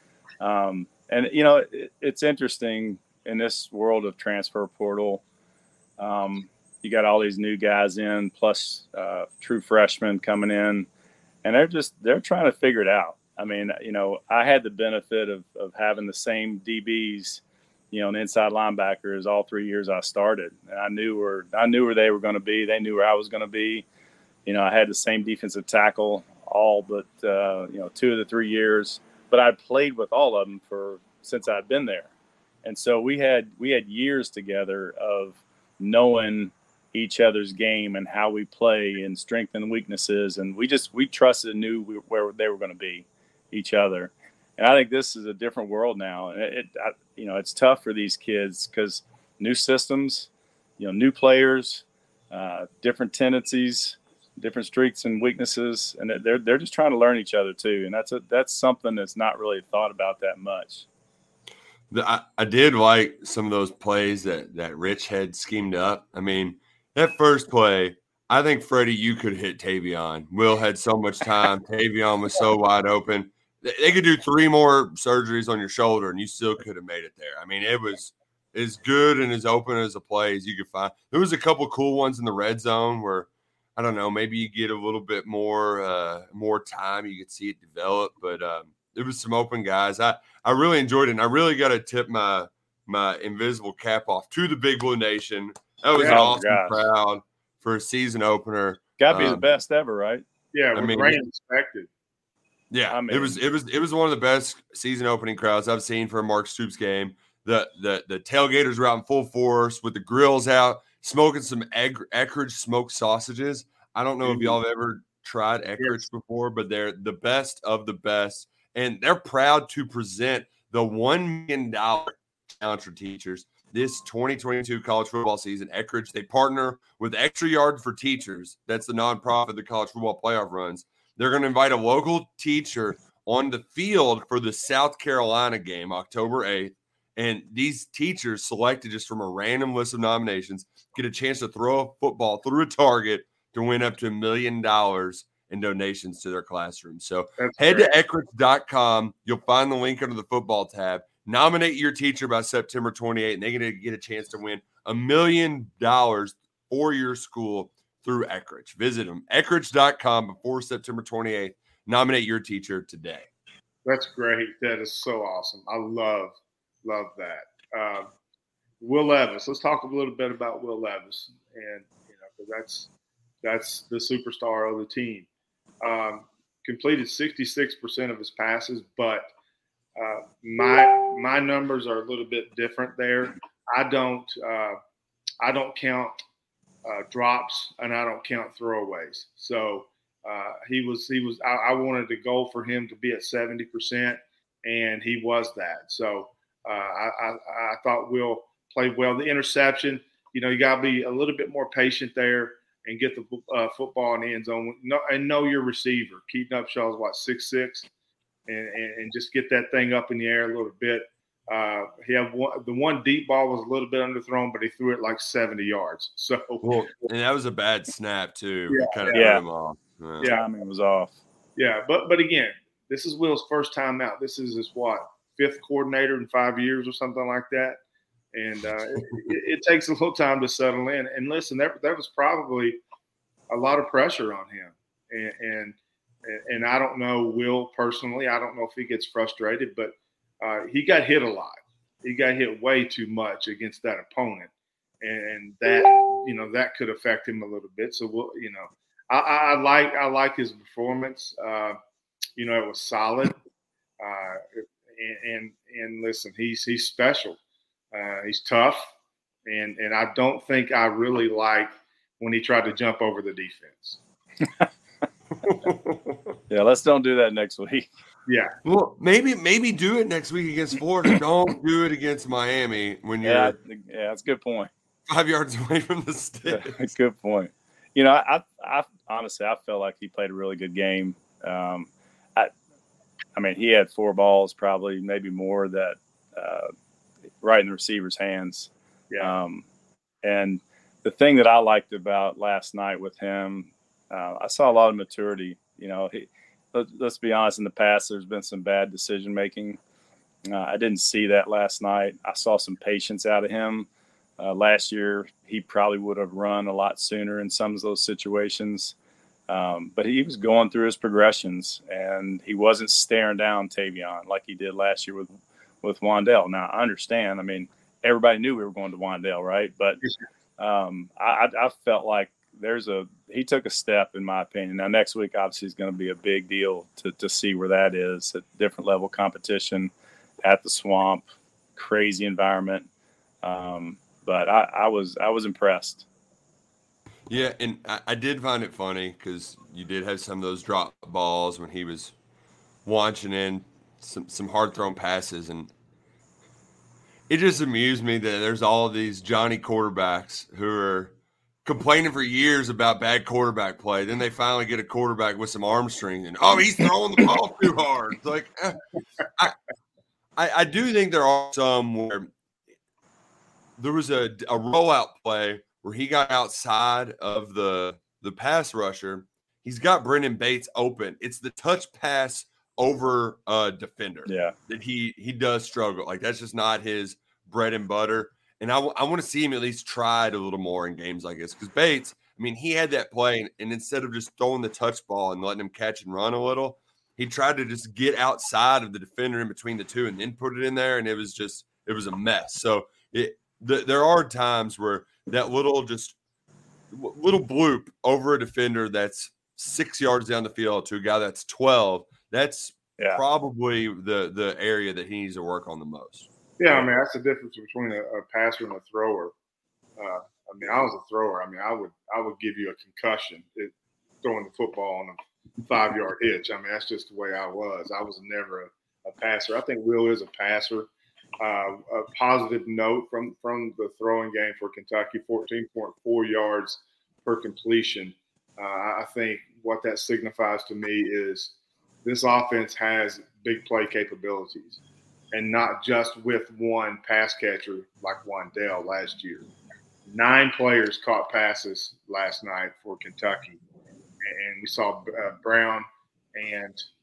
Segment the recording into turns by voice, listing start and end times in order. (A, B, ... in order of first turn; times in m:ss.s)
0:00.4-0:05.2 A
0:06.0-0:10.9 A
0:11.4-0:23.8 A
0:24.5-0:32.1 A
0:32.6-1:00.9 A
1:01.9-1:39.5 B
1:36.0-1:36.9 A
1:36.0-1:36.3 C
1:39.0-1:40.2 A
1:40.5-1:41.9 C
1:40.8-1:41.2 B
1:42.7-2:43.3 B
1:42.9-1:43.4 A
1:54.2-1:54.6 C
2:27.4-2:27.9 C
2:43.8-2:48.1 C
2:48.8-2:52.9 C
2:53.4-2:55.3 C
2:55.8-2:59.3 C
3:00.0-3:04.8 C
3:05.4-3:06.2 C
3:06.8-3:27.9 C
3:28.5-3:37.1 C
3:36.6-3:40.3 B
3:38.7-3:39.4 C
3:39.1-3:39.4 A
3:40.2-3:40.5 C
3:40.2-3:41.2 A
3:41.6-3:47.8 C
3:48.3-3:52.8 C
3:53.5-4:04.5 C
4:05.0-4:11.8 C
4:12.4-4:13.4 C
4:14.0-4:17.4 C
4:17.9-4:18.9 C
4:19.5-4:24.0 C
4:25.5-4:26.2 B
4:26.5-4:27.9 A
4:28.3-4:28.5 C
4:28.6-4:33.6 B
4:33.2-4:34.7 A
4:35.1-4:36.8 B
4:36.5-4:42.5 A
4:43.4-4:46.7 A
4:47.4-4:49.6 A
4:50.2-4:59.8 A
5:00.5-5:03.9 A
5:04.4-5:09.0 A
5:09.5-5:20.0 A
5:20.6-5:29.9 A
5:30.4-5:32.9 A
5:33.4-5:36.1 A
5:37.3-5:42.2 B
5:42.8-5:45.7 B
5:47.3-5:51.1 B
5:51.6-5:58.8 B
6:00.4-6:02.3 B
6:03.8-6:36.2 B
6:14.3-6:14.6 A
6:36.9-6:46.3 B
6:46.6-6:49.3 C
6:50.0-6:53.7 C
6:54.2-7:00.9 C
7:01.4-7:11.5 C
7:12.0-7:14.8 C
7:15.3-7:19.5 C
7:20.1-7:23.6 C
7:24.3-7:26.9 C